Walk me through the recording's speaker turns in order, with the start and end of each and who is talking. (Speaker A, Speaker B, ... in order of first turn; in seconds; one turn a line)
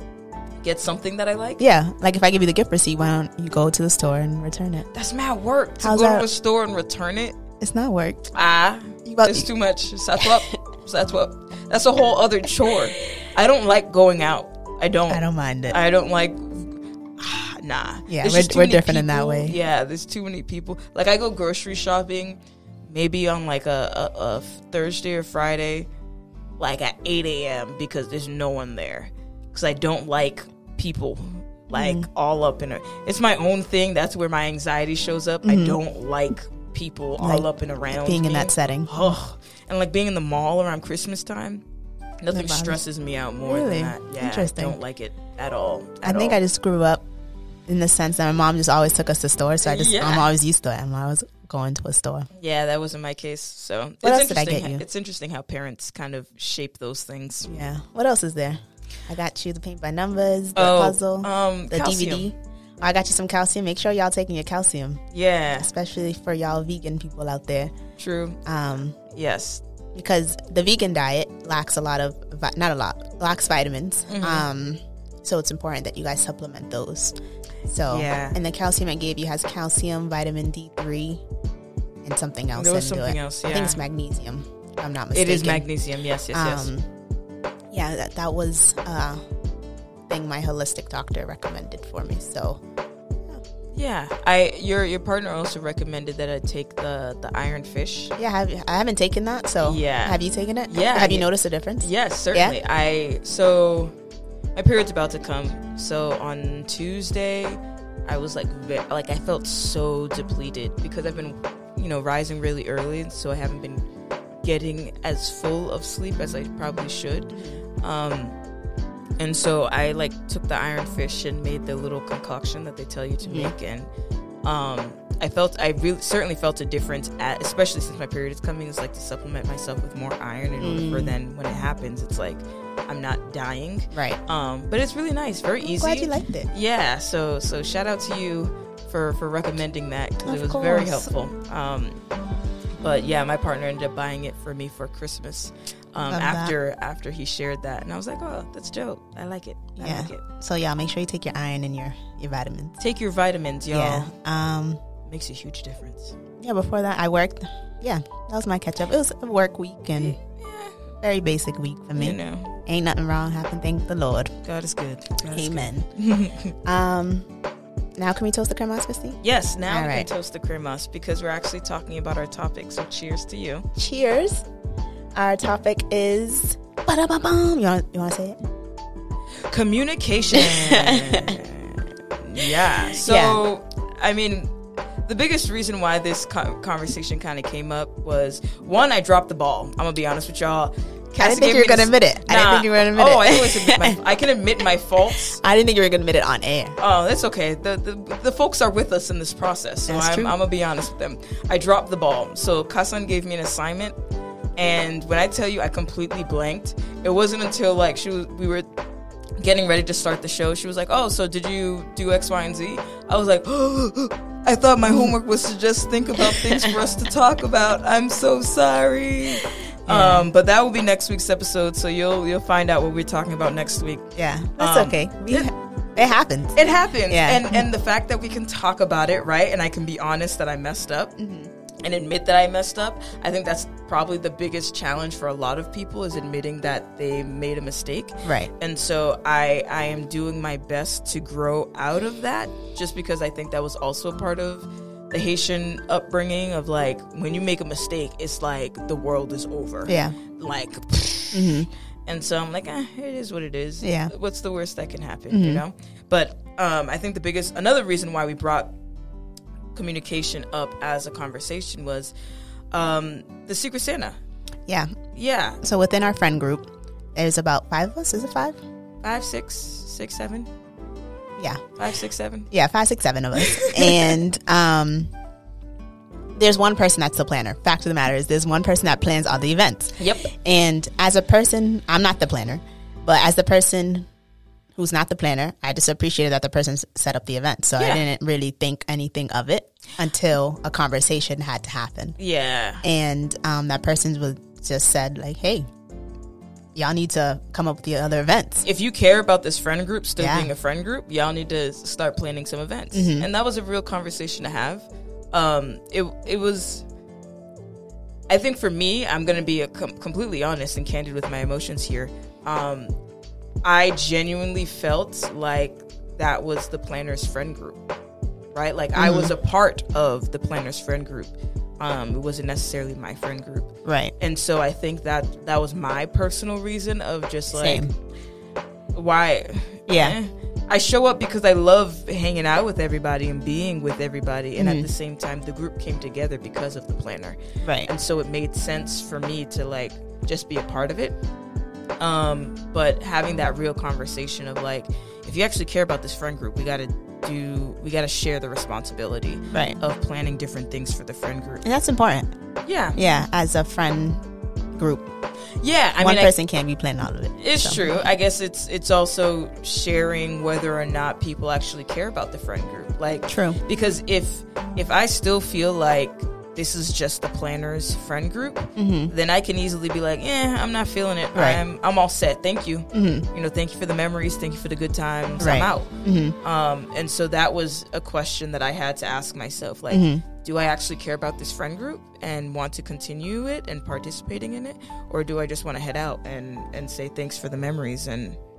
Speaker A: 0.6-1.6
Speaker B: 1.6-4.9
Speaker A: 4.9-7.3
Speaker B: 5.8-6.2
Speaker B: 7.6-8.3
Speaker A: 8.3-25.9
Speaker B: 9.0-9.5
Speaker B: 15.1-15.8
Speaker B: 18.1-19.6
Speaker A: 26.6-41.6
Speaker B: 31.7-32.1
Speaker B: 35.4-35.8
Speaker B: 37.2-39.1
Speaker A: 42.2-46.4
Speaker B: 42.3-42.8
Speaker B: 43.4-44.8
Speaker B: 46.0-47.0
Speaker B: 47.7-52.3
Speaker A: 49.6-50.3
Speaker A: 52.3-57.5
Speaker B: 54.0-54.8
Speaker B: 57.5-65.0
Speaker A: 60.5-62.3
Speaker A: 65.1-65.7
Speaker B: 65.6-67.7
Speaker A: 68.0-68.4
Speaker B: 68.4-69.0
Speaker A: 69.1-69.6
Speaker B: 69.9-77.2
Speaker A: 74.1-74.5
Speaker B: 77.7-81.2
Speaker A: 77.9-78.3
Speaker B: 82.0-85.7
Speaker A: 82.5-83.8
Speaker A: 85.1-86.7
Speaker B: 86.3-86.9
Speaker B: 87.7-89.2
Speaker B: 90.1-92.6
Speaker A: 93.7-98.1
Speaker B: 98.2-102.6
Speaker A: 99.6-103.9
Speaker A: 104.5-113.8
Speaker A: 114.4-118.4
Speaker B: 117.3-117.6
Speaker A: 119.2-123.9
Speaker B: 123.2-123.5
Speaker A: 124.4-142.0
Speaker B: 130.6-131.1
Speaker B: 133.9-134.2
Speaker B: 135.6-136.5
Speaker B: 140.2-141.1
Speaker A: 142.8-150.2
Speaker B: 146.1-146.5
Speaker B: 149.8-152.8
Speaker A: 152.8-154.1
Speaker B: 153.7-154.8
Speaker A: 155.1-156.1
Speaker B: 156.4-160.2
Speaker A: 160.0-160.8
Speaker B: 161.0-164.3
Speaker A: 162.0-162.5
Speaker A: 164.4-166.6
Speaker B: 165.3-165.9
Speaker B: 166.6-167.3
Speaker B: 168.0-170.1
Speaker A: 169.2-173.7
Speaker B: 173.8-174.4
Speaker B: 175.1-178.4
Speaker A: 179.5-184.5
Speaker B: 180.3-181.4
Speaker B: 182.4-183.4
Speaker A: 185.1-195.4
Speaker B: 191.2-194.0
Speaker B: 195.1-196.8
Speaker A: 196.8-203.9
Speaker B: 199.9-200.3
Speaker A: 204.6-208.7
Speaker A: 209.4-224.1
Speaker B: 214.8-215.1
Speaker B: 216.2-216.8
Speaker B: 219.9-220.3
Speaker B: 224.2-226.6
Speaker A: 224.6-225.5
Speaker A: 226.6-231.2
Speaker B: 227.1-227.6
Speaker B: 231.2-231.5
Speaker A: 231.8-258.7
Speaker B: 238.2-238.5
Speaker B: 249.9-250.1
Speaker B: 251.3-251.7
Speaker B: 253.8-254.1
Speaker B: 255.3-255.6
Speaker A: 259.7-262.1
Speaker A: 262.7-264.2
Speaker B: 264.7-264.9
Speaker A: 265.1-265.6
Speaker B: 265.6-268.6
Speaker A: 269.0-270.5
Speaker B: 271.4-271.6
Speaker A: 271.8-272.5
Speaker B: 272.5-275.1
Speaker A: 273.3-274.2
Speaker B: 276.4-284.1
Speaker A: 280.0-280.3
Speaker B: 284.7-292.2
Speaker A: 287.8-288.1
Speaker A: 292.2-292.8
Speaker B: 292.8-295.7
Speaker B: 296.7-298.6
Speaker A: 298.6-306.8
Speaker B: 300.2-300.5
Speaker B: 302.9-303.3
Speaker A: 308.3-312.9
Speaker A: 313.6-317.8
Speaker A: 318.5-327.9
Speaker B: 319.0-319.3
Speaker B: 323.8-324.1
Speaker B: 327.5-327.9
Speaker A: 328.9-341.2
Speaker B: 329.9-330.2
Speaker B: 334.6-334.9
Speaker B: 337.6-337.9
Speaker A: 342.0-351.6
Speaker B: 349.5-349.8
Speaker B: 351.6-352.3
Speaker A: 352.7-353.0
Speaker B: 352.9-354.2
Speaker B: 354.7-355.1
Speaker A: 355.6-356.3
Speaker B: 356.0-357.8
Speaker A: 357.4-375.9
Speaker B: 363.3-363.6
Speaker B: 368.8-369.1
Speaker B: 371.3-371.6
Speaker B: 372.9-373.3
Speaker B: 375.4-376.4
Speaker A: 376.4-388.4
Speaker B: 379.9-380.2